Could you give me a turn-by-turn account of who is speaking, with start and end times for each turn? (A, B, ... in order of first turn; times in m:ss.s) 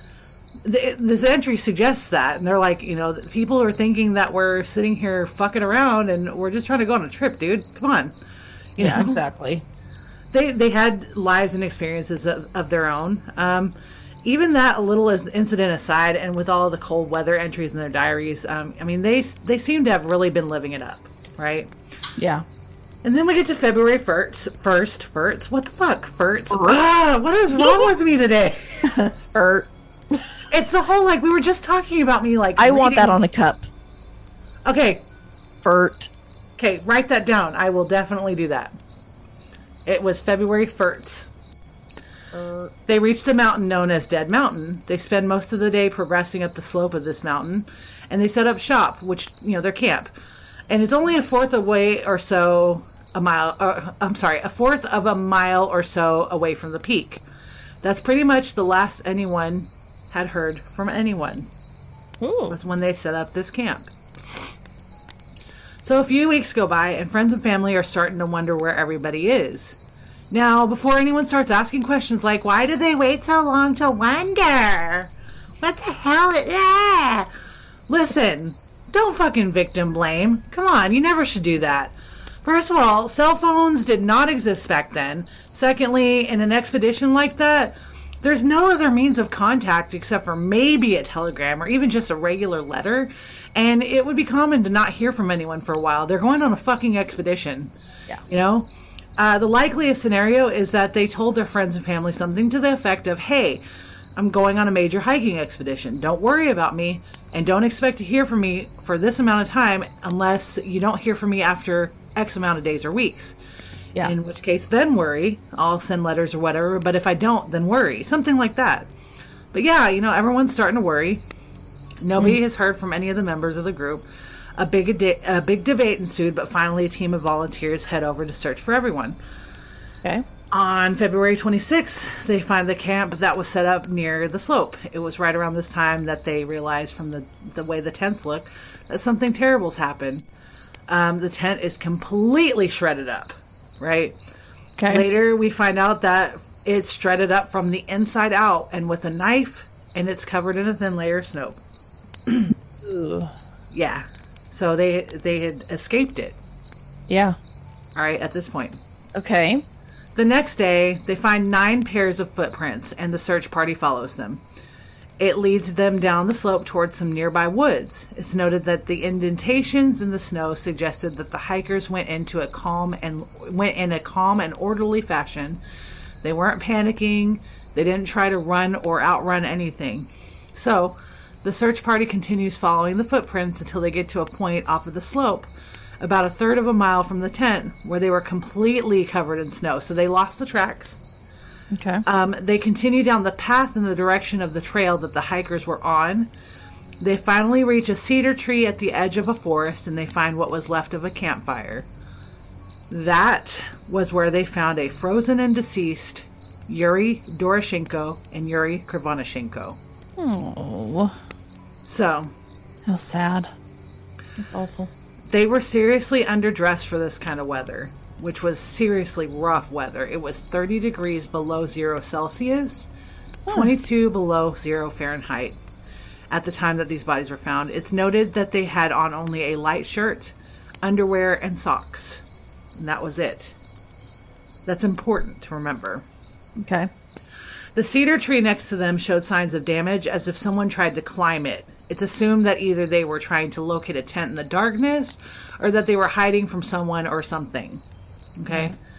0:00.6-0:08.1 A
0:08.8-0:09.2 A
0:08.8-0:09.6 B
0:10.3-0:21.7 A
0:22.2-0:22.4 B
0:23.0-0:29.0 A
0:26.5-0:26.8 B
0:27.6-0:27.9 B
0:28.8-0:29.7 B
0:30.5-0:33.2 A
0:32.6-0:33.7 B
0:34.6-0:35.0 A
0:35.6-0:36.1 B
0:36.6-0:38.7 A
0:39.8-0:41.3 A
0:42.3-0:42.7 B
0:42.9-0:50.1 A
0:50.7-0:57.2 A
0:57.8-1:01.5 A
1:02.2-1:02.6 B
1:02.5-1:03.9 A
1:05.8-1:09.8 A
1:10.3-1:17.3 A
1:17.9-1:37.7 A
1:38.3-1:43.6 A
1:44.2-1:53.4 A
1:54.0-1:58.9 A
1:59.5-2:01.2 A
2:02.0-2:04.0 A
2:04.6-2:09.2 A
2:10.5-2:20.3 A
2:20.9-2:24.2 A
2:24.8-2:25.0 B
2:24.9-2:31.6 A
2:32.2-2:32.5 A
2:32.8-2:33.3 B
2:33.7-2:36.4 A
2:37.1-2:37.4 B
2:37.9-2:38.8 A
2:39.1-2:39.6 B
2:40.2-2:44.4 A
2:45.2-2:55.6 A
2:56.2-3:11.0 A
3:11.7-3:12.0 B
3:12.0-3:16.3 A
3:17.0-3:21.9 A
3:22.9-3:29.8 A
3:30.2-3:31.1 B
3:31.8-3:32.3 A
3:32.8-3:33.5 B
3:34.4-3:34.9 B
3:35.3-3:42.9 A
3:43.5-3:45.6 A
3:46.3-3:52.2 A
3:52.8-3:53.6 A
3:54.6-3:56.0 A
3:56.6-3:56.9 B
3:57.7-4:07.8 A
4:08.4-4:08.7 A
4:08.5-4:08.7 B